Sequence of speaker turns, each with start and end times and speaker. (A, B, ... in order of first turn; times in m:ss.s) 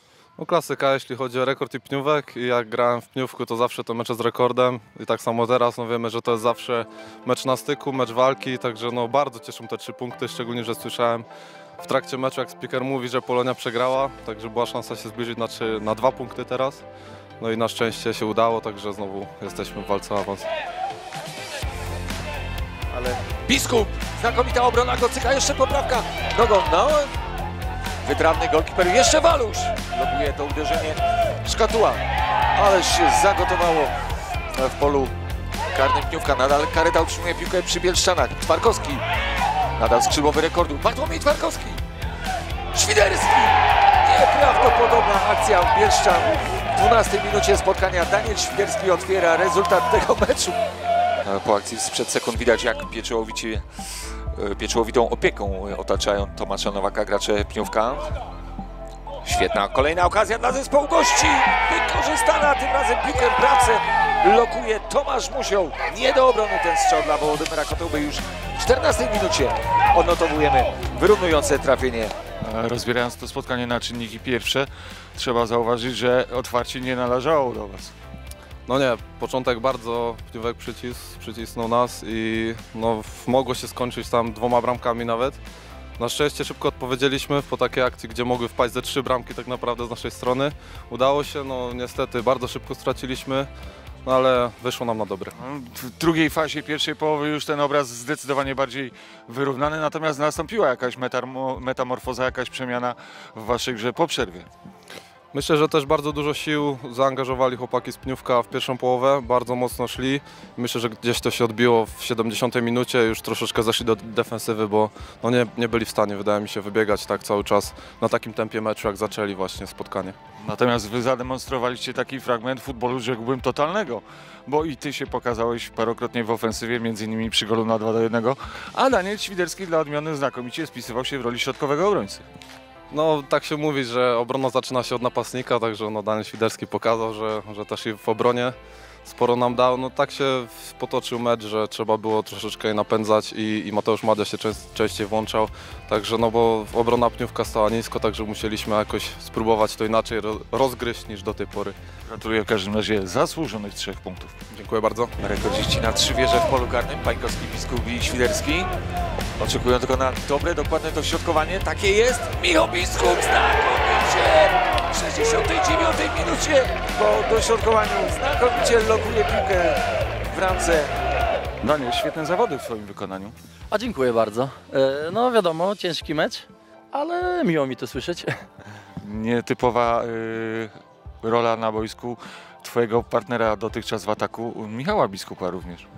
0:00.4-0:11.2 A
0:11.8-0:16.8 A
0:17.4-0:20.5 A
0:22.9-0:27.1 B
0:28.0-0:32.0 B
0:32.6-0:33.9 B
0:34.5-0:35.1 B
0:35.7-0:39.0 B
0:39.8-0:41.8 B
0:42.7-0:50.6 B
0:51.2-0:53.6 B
0:54.3-0:58.1 B
0:59.2-1:12.1 B
1:12.4-1:17.9 C
1:18.7-1:25.4 A
1:26.0-1:33.5 A
1:34.0-1:35.3 A
1:35.4-1:44.5 C
1:45.3-2:00.2 A
2:00.4-2:12.2 C
2:12.9-2:31.8 A
2:32.1-2:34.3 C
2:34.5-2:35.1 A
2:35.2-2:38.7 B
2:39.4-2:50.9 B
2:51.6-2:53.3 C
2:53.7-2:58.4 D
2:59.0-3:05.9 C